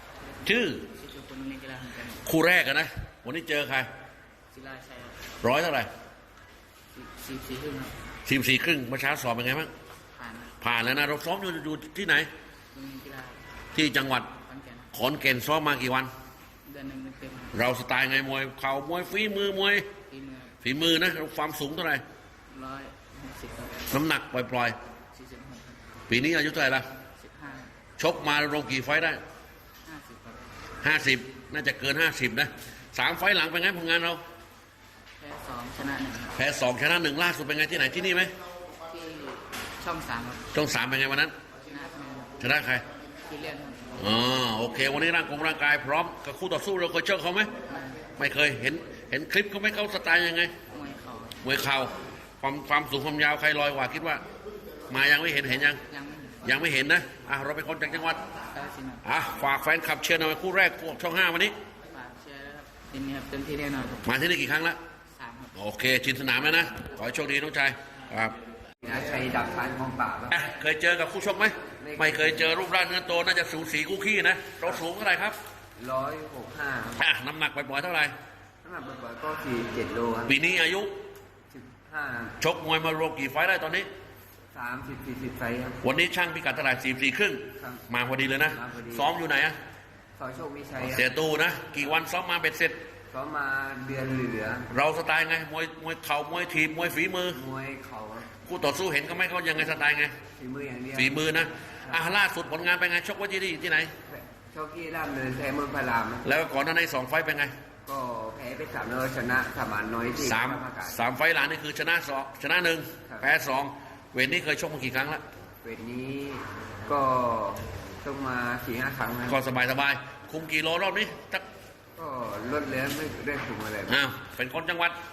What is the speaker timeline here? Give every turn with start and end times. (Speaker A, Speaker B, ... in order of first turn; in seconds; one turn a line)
Speaker A: 0.2-2.3
Speaker B: 0.5-0.9
Speaker B: 2.2-3.9
Speaker A: 4.5-5.2
Speaker B: 5.4-5.9
Speaker A: 6.9-8.0
Speaker B: 8.3-9.7
Speaker A: 10.1-10.5
Speaker B: 10.6-12.3
Speaker A: 12.7-13.4
Speaker B: 13.8-14.3
Speaker A: 14.3-14.9
Speaker B: 14.9-16.1
Speaker A: 16.6-17.6
Speaker B: 17.5-19.9
Speaker A: 20.1-20.5
Speaker B: 20.6-22.0
Speaker A: 22.5-23.9
Speaker B: 23.9-24.8
Speaker A: 25.1-26.0
Speaker B: 26.1-26.9
Speaker A: 27.0-27.7
Speaker B: 28.0-29.2
Speaker A: 29.8-30.4
Speaker B: 30.8-34.2
Speaker A: 35.2-36.4
Speaker B: 36.4-38.3
Speaker A: 38.9-40.5
Speaker B: 40.5-41.3
Speaker A: 41.7-42.4
Speaker B: 42.4-42.9
Speaker A: 43.3-44.1
Speaker B: 44.0-47.5
Speaker A: 47.7-48.1
Speaker B: 48.2-50.5
Speaker A: 50.7-51.4
Speaker B: 51.4-54.2
Speaker B: 54.9-55.8
Speaker A: 55.9-56.5
Speaker B: 56.4-58.2
Speaker A: 58.5-59.0
Speaker B: 59.0-61.6
Speaker A: 61.9-64.1
Speaker B: 64.0-64.8
Speaker A: 65.1-65.5
Speaker B: 65.5-68.4
Speaker C: 68.8-70.4
Speaker B: 70.3-75.4
Speaker C: 71.8-72.5
Speaker C: 75.8-77.0
Speaker B: 77.0-78.1
Speaker C: 78.6-80.4
Speaker B: 80.3-80.9
Speaker C: 81.5-82.4
Speaker B: 82.4-83.9
Speaker C: 84.5-85.8
Speaker B: 85.8-89.6
Speaker C: 87.5-87.9
Speaker C: 88.4-89.1
Speaker C: 90.2-91.1
Speaker B: 90.8-92.8
Speaker C: 93.1-94.7
Speaker B: 94.7-97.4
Speaker C: 97.3-98.3
Speaker B: 98.4-100.2
Speaker C: 100.3-102.0
Speaker B: 101.0-103.9
Speaker C: 104.1-106.3
Speaker B: 106.2-107.5
Speaker C: 107.9-111.0
Speaker B: 110.2-115.2
Speaker C: 115.6-119.4
Speaker B: 119.3-121.4
Speaker C: 122.0-124.0
Speaker B: 123.9-125.0